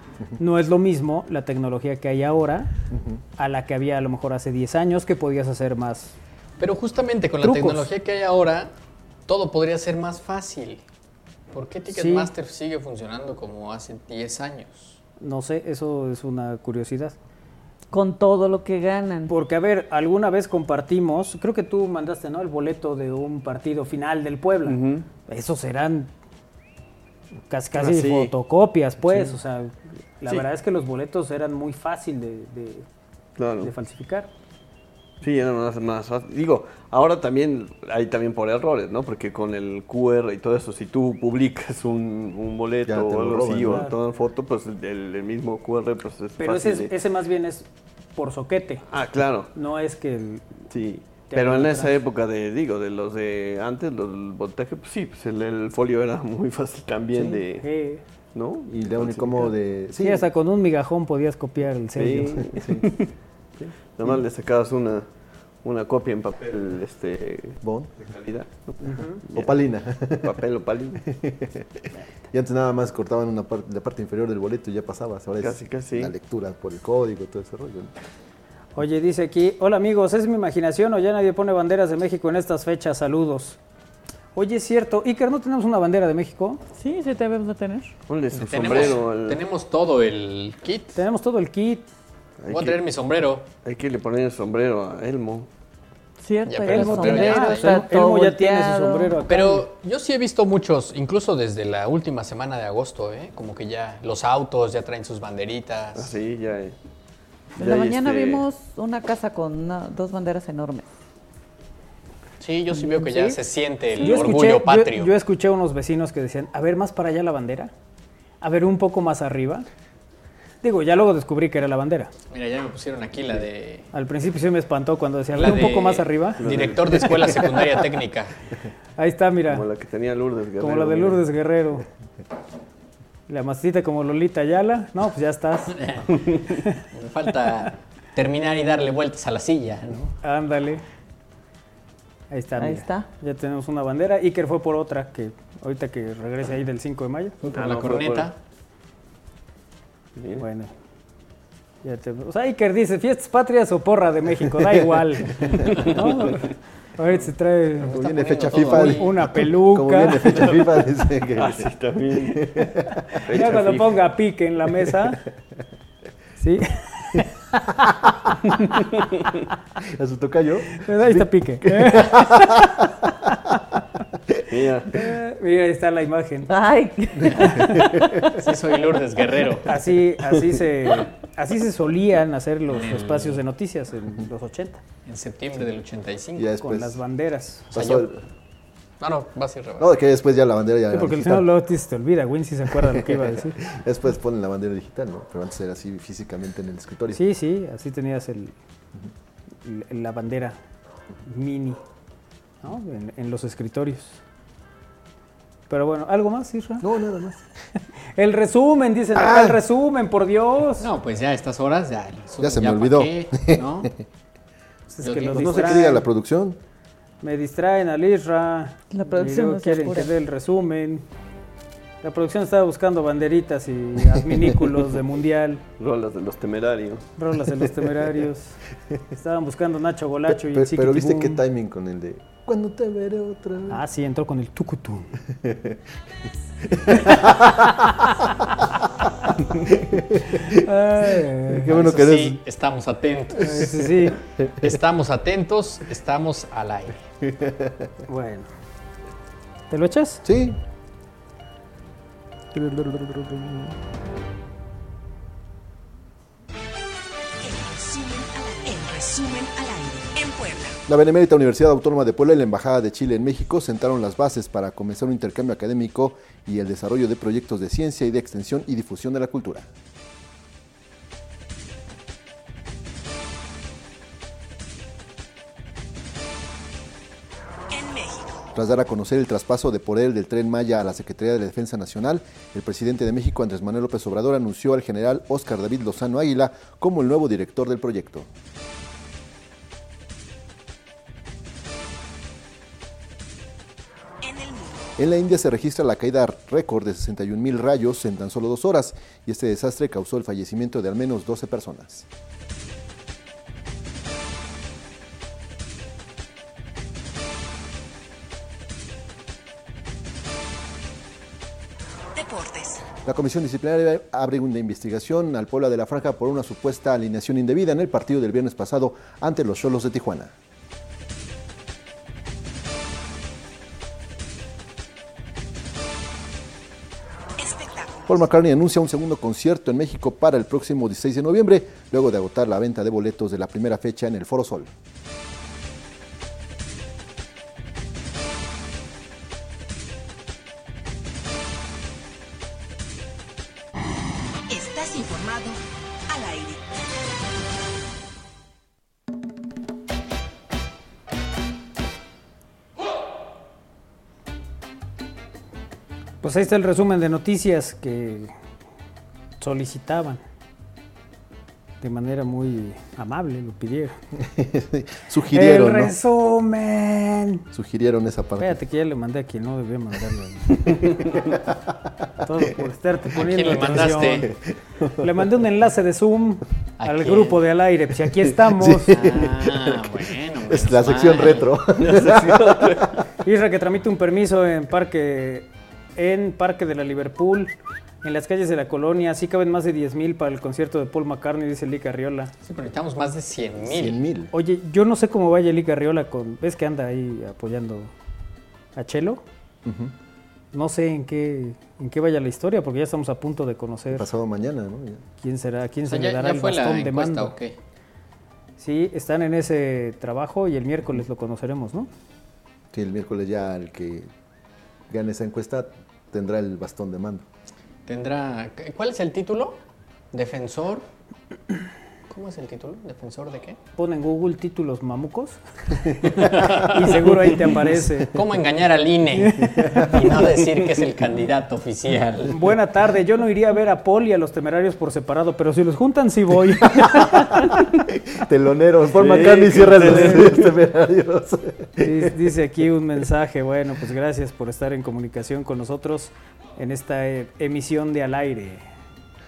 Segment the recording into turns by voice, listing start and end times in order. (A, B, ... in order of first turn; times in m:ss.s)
0:00.4-0:02.7 A
0:02.9-0:03.2 B
0:03.4-0:06.1 A
0:06.6-0:08.7 C
0:07.4-0:07.8 A
0:09.3-0:10.8 C
0:11.5-0:15.0 C
0:11.9-0:12.3 A
0:15.2-0:17.2 A
0:17.9-0:19.3 D
0:19.3-0:26.1 A
0:24.6-0:25.1 E
0:27.5-0:32.8 A
0:27.7-0:28.3 E
0:29.1-0:29.3 E
0:33.4-0:33.7 E
0:33.6-0:34.3 A
0:35.2-0:46.9 E
0:42.8-0:43.9 B
0:46.4-0:48.8 A
0:48.9-0:49.5 E
0:49.5-0:50.4 A
0:50.7-0:57.6 E
0:51.3-0:52.0 A
0:57.3-0:58.0 A
0:58.3-0:59.5 E
0:58.7-1:00.3 B
1:00.0-1:02.5 A
1:02.0-1:03.0 E
1:02.5-1:02.9 B
1:04.0-1:05.1 E
1:05.6-1:09.6 E
1:07.6-1:07.9 B
1:08.8-1:09.2 A
1:09.3-1:10.4 B
1:10.2-1:11.0 E
1:11.0-1:17.9 B
1:15.4-1:16.1 E
1:18.8-1:23.6 A
1:24.3-1:26.6 A
1:26.8-1:27.9 D
1:28.1-1:29.4 E
1:28.3-1:31.0 C
1:30.9-1:31.8 A
1:32.4-1:32.8 E
1:32.5-1:33.5 C
1:33.6-1:35.5 E
1:36.2-1:39.2 D
1:36.4-1:37.8 C
1:36.6-1:39.7 A
1:39.3-1:46.1 C
1:45.9-1:46.7 E
1:47.6-1:48.4 E
1:47.6-1:50.9 D
1:52.4-1:55.1 C
1:52.9-1:53.4 A
1:54.0-1:54.4 D
1:54.0-1:57.7 A
1:58.4-1:59.6 A
2:00.6-2:02.1 A
2:02.3-2:03.9 C
2:03.9-2:06.4 A
2:05.4-2:08.3 C
2:06.4-2:07.4 E
2:09.0-2:09.6 A
2:09.5-2:11.2 E
2:10.6-2:11.8 A
2:13.3-2:15.8 A
2:15.7-2:20.1 C
2:20.2-2:20.8 A
2:22.3-2:27.4 A
2:22.6-2:23.1 D
2:27.4-2:28.3 E
2:27.5-2:28.4 C
2:30.2-2:30.4 E
2:30.4-2:30.7 A
2:31.8-2:38.0 A
2:37.8-2:39.1 C
2:37.9-2:43.0 B
2:38.7-2:40.4 A
2:41.3-2:42.5 E
2:43.3-2:44.0 E
2:43.3-2:45.2 A
2:46.4-2:47.3 A
2:49.8-2:53.1 B
2:50.8-2:52.7 A
2:54.5-2:54.9 E
2:54.9-2:56.5 A
2:56.5-2:57.9 D
2:57.2-2:58.2 B
2:57.4-2:57.8 A
2:58.3-2:59.7 C
2:59.6-3:04.8 A
3:02.7-3:03.4 C
3:05.0-3:06.5 C
3:06.4-3:07.0 B
3:06.6-3:07.7 A
3:07.7-3:08.2 B
3:07.7-3:08.1 C
3:09.0-3:09.9 C
3:09.8-3:11.5 B
3:10.9-3:13.6 A
3:12.8-3:17.2 B
3:17.1-3:18.5 A
3:19.6-3:20.6 A
3:21.2-3:21.8 A
3:22.6-3:24.2 A
3:25.7-3:26.8 A
3:26.8-3:27.4 B
3:28.2-3:30.9 A
3:29.1-3:29.6 B
3:30.8-3:33.9 C
3:32.4-3:33.9 B
3:34.9-3:36.0 A
3:35.0-3:35.8 C
3:35.3-3:36.6 B
3:37.2-3:41.0 A
3:38.9-3:40.1 D
3:42.0-3:45.6 A
3:45.8-3:47.1 E
3:47.2-3:48.6 A
3:49.2-3:51.4 A
3:50.3-3:53.8 B
3:53.7-3:55.1 A
3:55.3-3:55.8 B
3:56.7-3:58.2 B
3:59.6-4:00.6 B
4:00.4-4:01.8 A
4:01.5-4:02.4 B
4:01.7-4:03.8 C
4:03.4-4:04.2 A
4:03.4-4:03.8 B
4:04.4-4:04.7 B
4:04.5-4:07.0 C
4:07.3-4:07.8 B
4:08.1-4:08.5 A
4:09.7-4:10.2 A
4:10.2-4:10.6 B
4:12.6-4:13.6 B
4:17.4-4:20.8 F
4:20.9-4:29.7 B
4:37.7-4:38.5 F
4:38.5-4:48.3 B
4:54.2-4:55.0 F
4:55.0-5:02.1 B
5:12.1-5:12.8 F
5:13.0-5:20.3 B
5:27.4-5:28.3 F
5:28.1-5:34.7 B
5:44.5-5:45.6 F
5:46.1-5:46.6 F
5:56.2-5:58.3 A
5:59.4-6:00.2 A
6:01.8-6:03.9 A
6:04.2-6:05.9 B
6:05.3-6:07.4 A
6:07.5-6:08.6 B
6:08.4-6:10.8 A
6:11.0-6:11.5 B
6:12.2-6:14.3 A
6:13.1-6:14.3 C
6:13.5-6:15.1 B
6:15.0-6:18.9 A
6:16.8-6:17.4 C
6:18.5-6:20.0 B
6:18.9-6:21.6 C
6:20.5-6:23.0 B
6:21.8-6:22.9 E
6:23.2-6:27.5 A
6:28.0-6:32.3 A
6:32.4-6:34.0 C
6:33.6-6:34.3 B
6:34.3-6:37.9 A
6:38.8-6:39.2 A
6:39.6-6:39.9 B
6:40.5-6:44.0 A
6:43.9-6:45.0 B
6:45.2-6:47.3 A
6:45.9-6:47.5 C
6:48.6-6:51.9 A
6:52.7-6:54.1 B
6:54.9-6:57.2 B
6:57.8-6:59.6 C
7:00.1-7:00.8 C
7:02.1-7:03.6 C
7:03.8-7:05.4 A
7:06.1-7:07.2 C
7:06.6-7:08.1 A
7:08.1-7:12.4 C
7:09.2-7:09.9 A
7:12.3-7:17.4 A
7:16.8-7:22.1 B
7:19.0-7:20.4 E
7:19.8-7:20.3 A
7:21.8-7:28.6 A